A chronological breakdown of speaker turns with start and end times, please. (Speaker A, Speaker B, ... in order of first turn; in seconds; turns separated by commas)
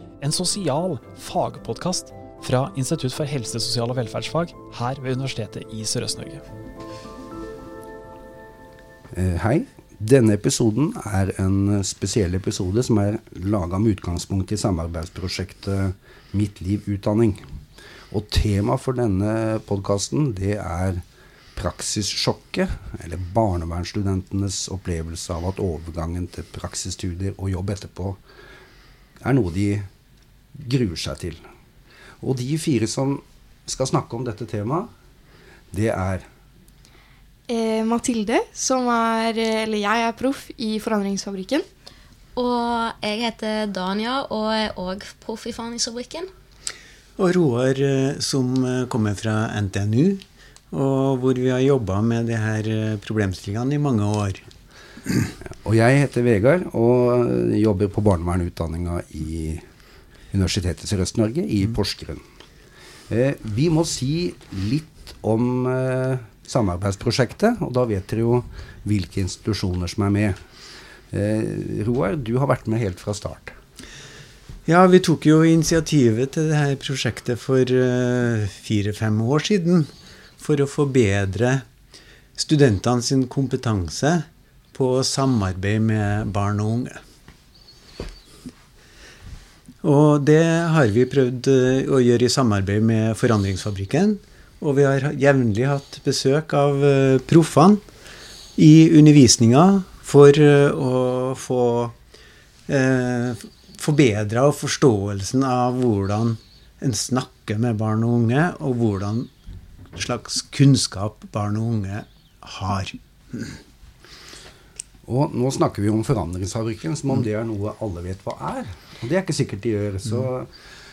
Speaker A: 0.2-6.4, Speaker B: 9.1-17.4, Speaker B: 18.1-21.0, Speaker B: 21.6-28.2, Speaker B: 29.2-29.9, Speaker B: 30.6-31.4, Speaker B: 32.2-34.9, Speaker B: 35.7-36.3, Speaker C: 37.5-41.6, Speaker D: 42.4-46.3, Speaker E: 47.2-54.5, Speaker B: 55.6-59.6, Speaker B: 60.3-62.2, Speaker B: 63.1-70.4, Speaker B: 71.1-73.5, Speaker E: 74.7-81.6, Speaker E: 82.4-87.0, Speaker E: 89.8-97.8, Speaker E: 98.6-102.0, Speaker E: 102.7-109.3, Speaker E: 110.0-113.6, Speaker B: 115.1-120.5